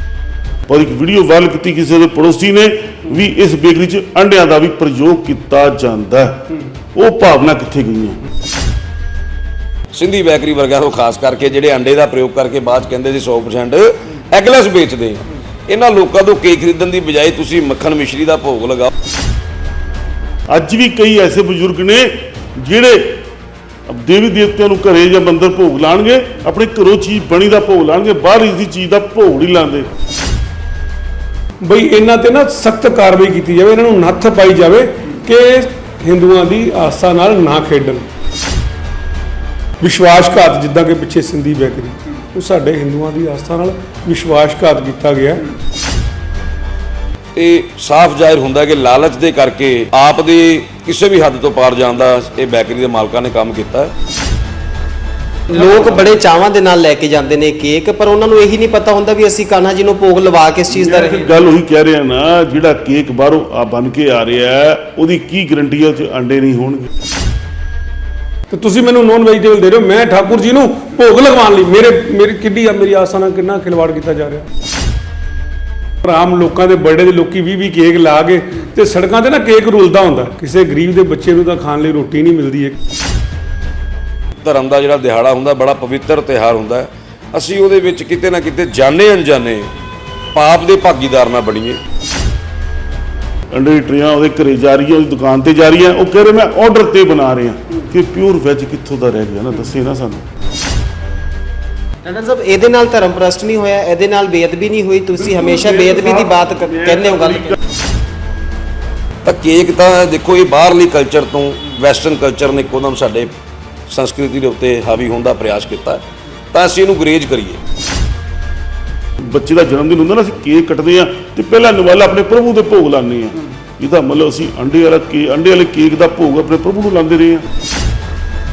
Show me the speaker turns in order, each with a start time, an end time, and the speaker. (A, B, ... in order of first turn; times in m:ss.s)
0:00.7-0:08.2 A
0:09.9-0:18.9 B
0:20.5-0:23.2 A
0:23.9-0:29.9 A
0:31.6-0:38.0 C
0:39.8-0:45.4 C
0:47.3-0:53.9 B
0:55.5-1:01.3 D
1:00.7-1:06.9 A
1:08.5-1:14.5 C
1:16.0-1:22.8 C
1:24.4-1:29.7 B
1:30.4-1:31.8 B
1:33.5-1:40.2 A
1:42.0-1:47.6 D
1:45.4-1:47.6 A
1:49.2-1:53.3 B
1:53.9-1:57.6 B
1:59.2-2:07.5 A